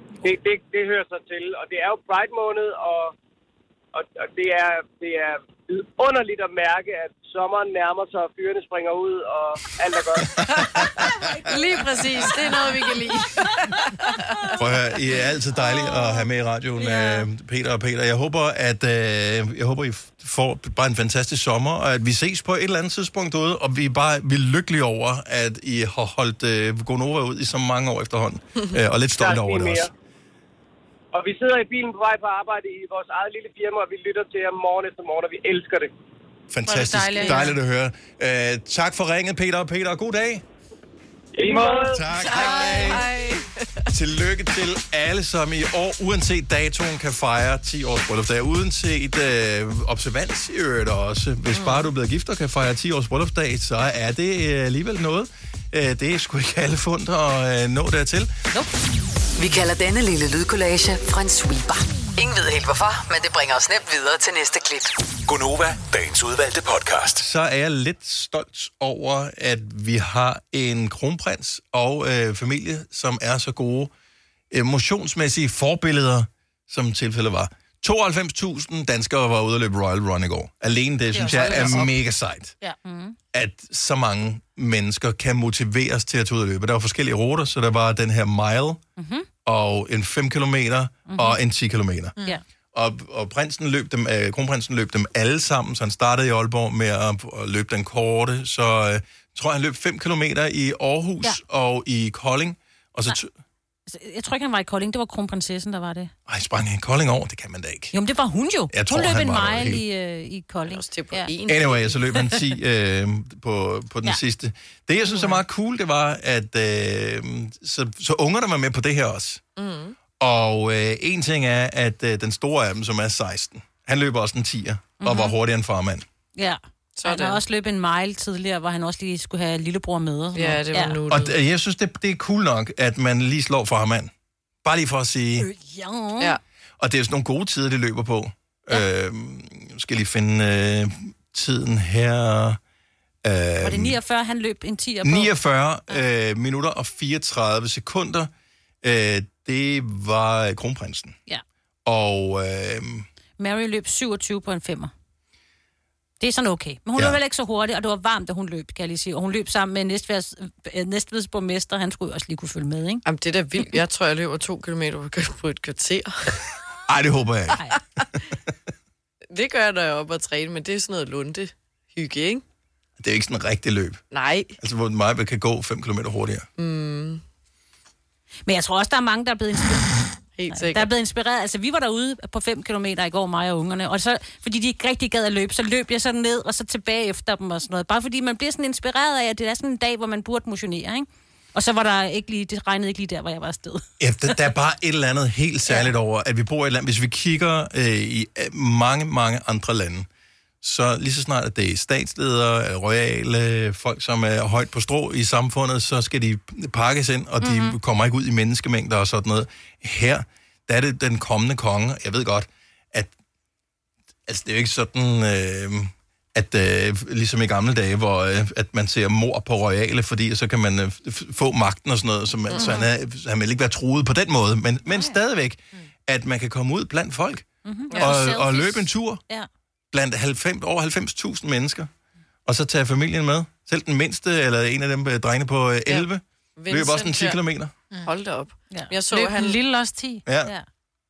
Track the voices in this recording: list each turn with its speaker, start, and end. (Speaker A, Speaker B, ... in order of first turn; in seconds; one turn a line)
Speaker A: 0.2-3.1
Speaker A: 3.9-10.3
Speaker B: 10.4-11.1
Speaker C: 11.1-11.5
Speaker D: 11.4-13.5
Speaker C: 12.2-13.1
Speaker C: 13.7-14.6
Speaker B: 14.6-29.9
Speaker C: 15.5-17.3
Speaker A: 29.2-29.9
Speaker A: 31.1-35.9
Speaker B: 36.5-40.4
Speaker E: 36.6-37.5
Speaker D: 37.1-37.5
Speaker A: 41.4-41.9
Speaker B: 41.6-43.1
Speaker D: 42.1-43.9
Speaker B: 43.9-58.3
Speaker D: 51.5-51.9
Speaker F: 59.4-64.9
Speaker G: 65.2-67.2
Speaker B: 67.2-73.9
Speaker B: 74.5-82.5
Speaker E: 81.1-81.9
Speaker C: 81.2-81.9
Speaker C: 82.8-83.2
Speaker B: 83.3-88.8
Speaker C: 89.0-89.3
Speaker B: 89.4-92.2
Speaker C: 91.1-91.4
Speaker B: 92.7-103.3
Speaker C: 103.9-106.1
Speaker B: 106.3-107.9
Speaker C: 107.9-111.3
Speaker B: 108.7-109.8
Speaker D: 110.7-112.4
Speaker B: 111.5-119.4
Speaker C: 115.1-115.3
Speaker D: 119.5-120.0
Speaker B: 120.2-126.0
Speaker C: 125.0-125.3
Speaker C: 126.3-131.0
Speaker D: 127.0-127.4
Speaker D: 130.3-131.3
Speaker B: 131.1-134.1
Speaker B: 134.6-135.5
Speaker C: 135.4-136.4
Speaker B: 136.8-142.6
Speaker B: 143.2-144.0
Speaker C: 143.6-145.3
Speaker B: 145.0-148.3
Speaker B: 148.8-151.2
Speaker B: 151.8-153.1
Speaker C: 153.4-154.9
Speaker C: 156.2-163.0
Speaker D: 163.0-166.4
Speaker B: 166.9-167.6
Speaker D: 169.3-172.4
Speaker B: 173.0-174.0
Speaker D: 174.1-174.6
Speaker B: 174.6-176.4
Speaker D: 176.6-177.2
Speaker C: 178.4-194.4
Speaker D: 180.3-180.9
Speaker B: 194.0-200.1
Speaker C: 195.7-195.9
Speaker B: 200.6-213.1
Speaker C: 207.4-207.8
Speaker B: 214.3-229.2
Speaker C: 222.5-222.9
Speaker C: 224.8-225.2
Speaker C: 227.6-229.5
Speaker D: 227.9-228.2
Speaker B: 229.9-231.9
Speaker B: 232.4-237.7
Speaker D: 235.9-237.4
Speaker D: 238.0-239.6
Speaker E: 239.1-240.2
Speaker B: 240.2-240.5